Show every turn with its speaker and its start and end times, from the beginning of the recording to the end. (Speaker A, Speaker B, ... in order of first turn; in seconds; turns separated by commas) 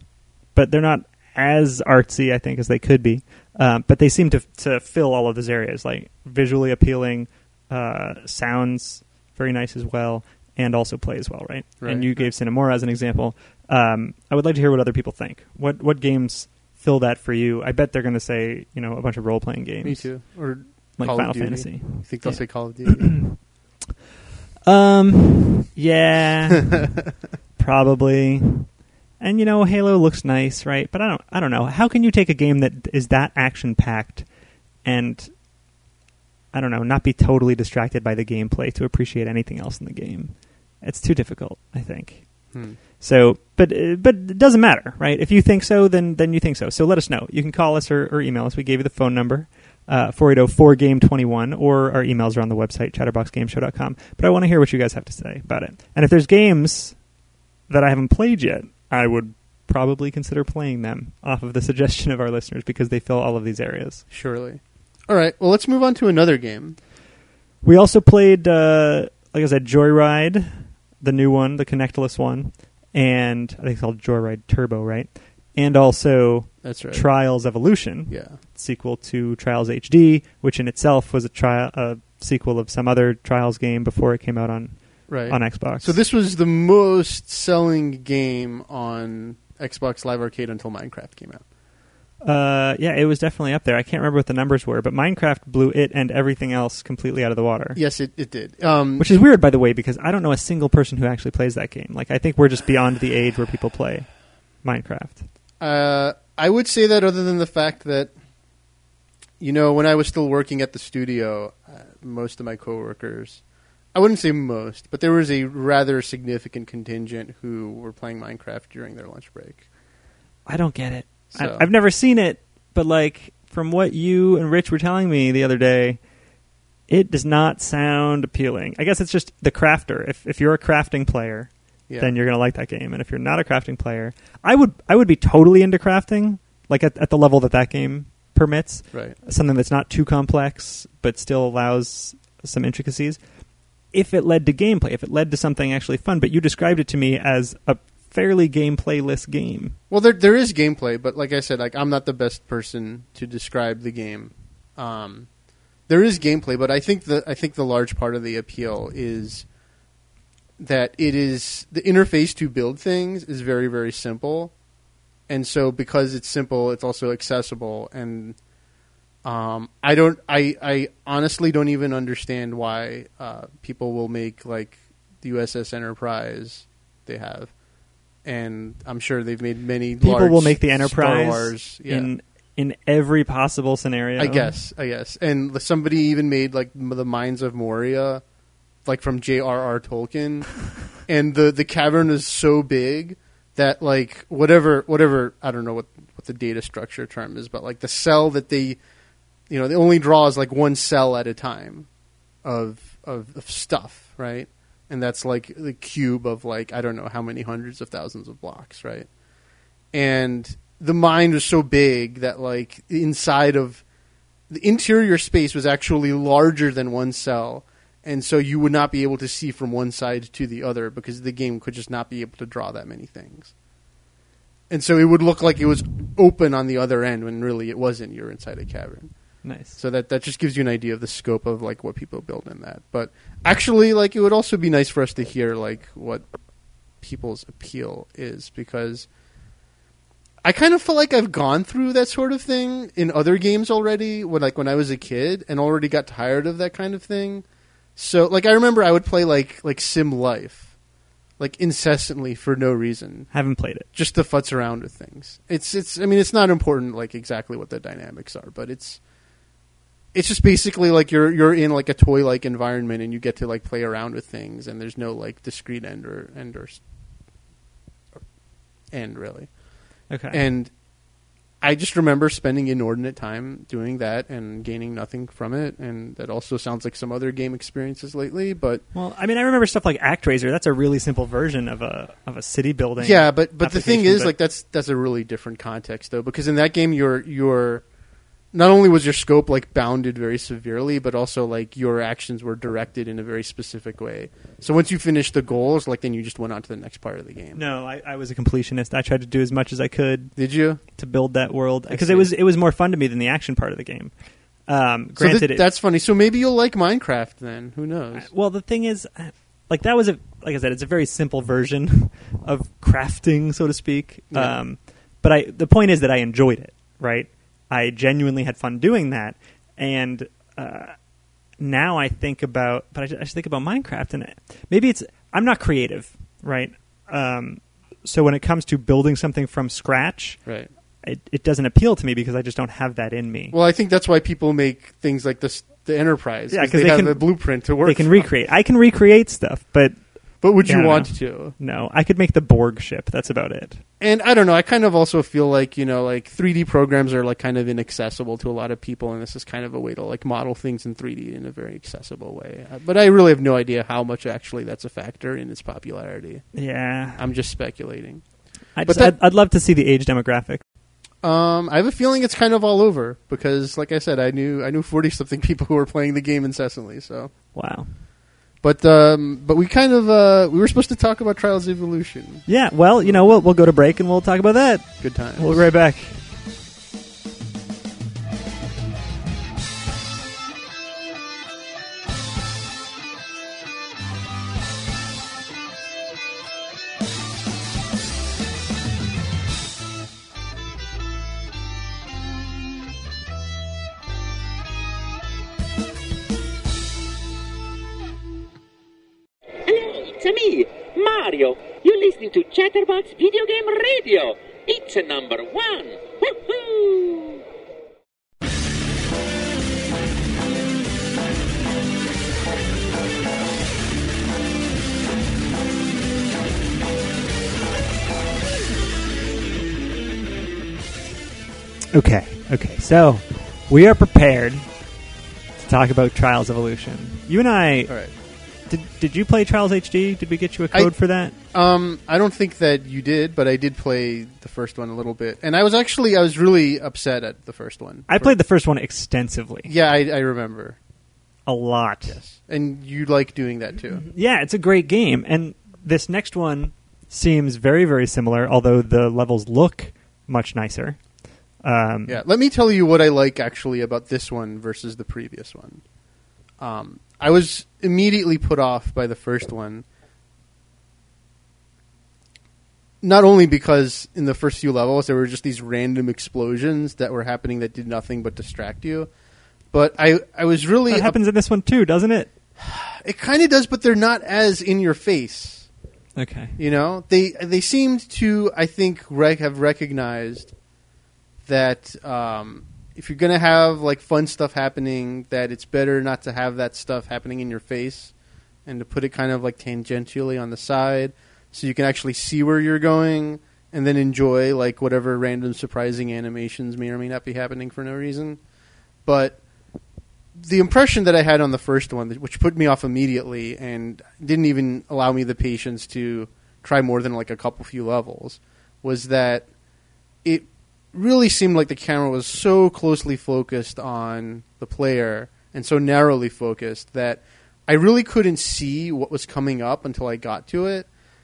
Speaker A: 0.5-20.2, Speaker B: 11.8-12.3, Speaker B: 19.8-23.4, Speaker A: 21.0-23.4, Speaker A: 24.6-26.9, Speaker A: 27.6-34.3, Speaker A: 34.8-35.3, Speaker A: 36.5-57.0, Speaker B: 42.5-42.8, Speaker A: 57.7-64.0, Speaker B: 64.1-66.8, Speaker A: 67.6-86.0, Speaker B: 76.6-77.1, Speaker B: 78.1-78.4, Speaker B: 85.1-91.4, Speaker A: 92.2-97.8, Speaker B: 97.8-99.1, Speaker A: 99.0-104.1, Speaker A: 104.6-105.2, Speaker B: 105.6-108.1, Speaker B: 109.4-113.4, Speaker B: 113.9-119.6, Speaker A: 120.5-126.0, Speaker B: 121.3-121.7, Speaker A: 126.9-143.2, Speaker A: 143.9-149.8, Speaker B: 149.9-155.3, Speaker B: 155.9-159.4, Speaker B: 160.6-164.5, Speaker B: 165.3-168.4, Speaker B: 169.2-177.5, Speaker B: 178.2-182.1, Speaker A: 180.0-184.6, Speaker B: 184.2-188.2, Speaker B: 188.8-198.8, Speaker B: 199.5-201.9, Speaker B: 202.4-209.1, Speaker B: 209.9-213.8, Speaker B: 214.5-223.5, Speaker B: 224.7-229.1, Speaker A: 229.4-229.8, Speaker B: 229.8-236.2, Speaker B: 237.0-239.1, Speaker B: 240.4-247.4, Speaker B: 247.9-250.7, Speaker B: 251.4-253.3, Speaker A: 253.3-253.9, Speaker B: 253.9-259.0, Speaker B: 260.1-266.8, Speaker B: 268.9-269.5, Speaker A: 270.1-270.4, Speaker B: 270.3-270.7, Speaker B: 271.6-278.8, Speaker A: 278.9-284.3, Speaker B: 283.0-287.8, Speaker B: 288.5-297.6, Speaker A: 297.5-300.3, Speaker B: 300.4-300.8, Speaker A: 300.9-304.1, Speaker B: 301.9-302.3, Speaker A: 304.7-305.7, Speaker B: 305.2-308.3, Speaker A: 308.1-320.9, Speaker A: 321.6-330.4, Speaker A: 331.0-333.6, Speaker B: 333.5-338.2, Speaker A: 336.5-339.9, Speaker B: 340.4-341.5, Speaker A: 340.6-343.8, Speaker B: 344.0-356.4, Speaker A: 356.5-357.2, Speaker B: 357.2-358.2, Speaker A: 358.8-360.6, Speaker B: 358.9-359.1, Speaker B: 361.2-367.3, Speaker A: 367.5-367.9, Speaker B: 368.6-372.4, Speaker A: 372.5-376.1, Speaker B: 373.0-373.4, Speaker B: 375.0-375.7, Speaker C: 399.6-407.4, Speaker A: 421.9-424.6, Speaker A: 425.6-427.9, Speaker A: 428.7-431.4, Speaker B: 431.5-438.3, Speaker A: 438.1-439.7, Speaker B: 439.6-440.8, Speaker A: 441.4-442.2, Speaker B: 442.1-444.0, Speaker A: 443.9-451.0, Speaker A: 451.6-452.2, Speaker B: 452.1-455.8, Speaker B: 456.6-459.8, Speaker B: 463.0-469.1, Speaker B: 469.7-471.2, Speaker A: 470.9-472.3, Speaker B: 472.6-475.7, Speaker A: 476.1-476.6, Speaker B: 476.6-480.5, Speaker B: 481.4-488.1, Speaker B: 488.6-498.4, Speaker B: 499.1-499.4, Speaker B: 500.4-509.5, Speaker B: 510.2-520.9